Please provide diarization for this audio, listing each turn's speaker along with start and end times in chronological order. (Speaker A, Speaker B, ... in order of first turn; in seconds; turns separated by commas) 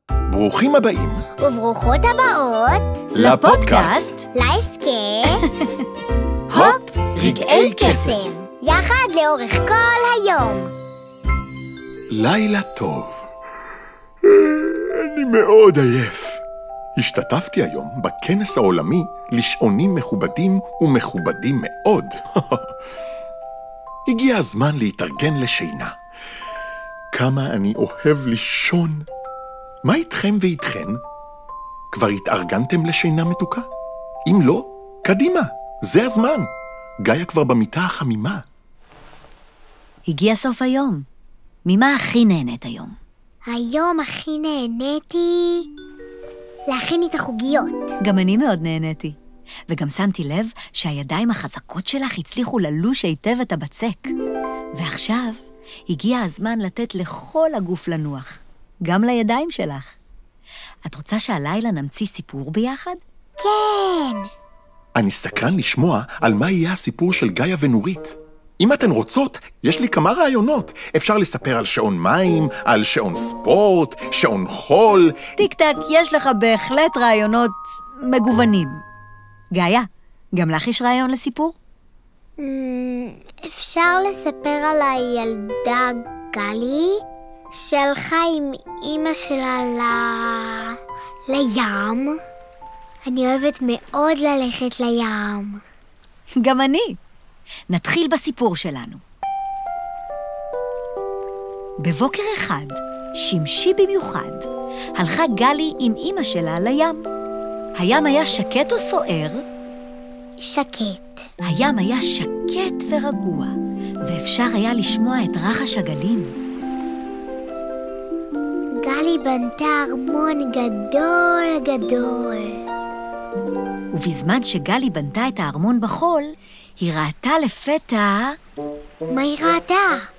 Speaker A: 0.3-1.2, Speaker B: 1.4-3.0, Speaker A: 3.1-4.0, Speaker C: 3.2-4.3, Speaker B: 4.3-5.5, Speaker B: 6.5-10.7, Speaker C: 6.5-8.1, Speaker A: 6.5-8.2, Speaker A: 12.1-13.1, Speaker A: 14.3-16.4, Speaker A: 17.0-22.7, Speaker A: 24.1-25.9, Speaker A: 27.1-29.0, Speaker A: 29.8-31.0, Speaker A: 31.9-33.7, Speaker A: 34.3-36.5, Speaker A: 37.0-38.4, Speaker C: 40.1-41.0, Speaker C: 41.7-42.9, Speaker B: 43.5-45.6, Speaker B: 46.7-47.9, Speaker C: 48.0-49.1, Speaker C: 49.7-54.1, Speaker C: 54.8-60.0, Speaker C: 60.9-63.0, Speaker B: 63.4-64.3, Speaker A: 65.0-75.1, Speaker C: 75.4-78.8, Speaker C: 79.5-81.5, Speaker B: 82.4-87.0, Speaker B: 87.5-90.7, Speaker B: 91.3-92.2, Speaker B: 93.1-95.6, Speaker C: 96.4-97.0, Speaker C: 97.7-99.0, Speaker C: 101.8-107.0, Speaker C: 107.8-109.4, Speaker B: 110.4-111.2, Speaker C: 111.4-113.5, Speaker C: 114.1-116.3, Speaker B: 118.8-122.6, Speaker C: 123.9-126.3, Speaker C: 126.8-128.3, Speaker B: 129.1-130.0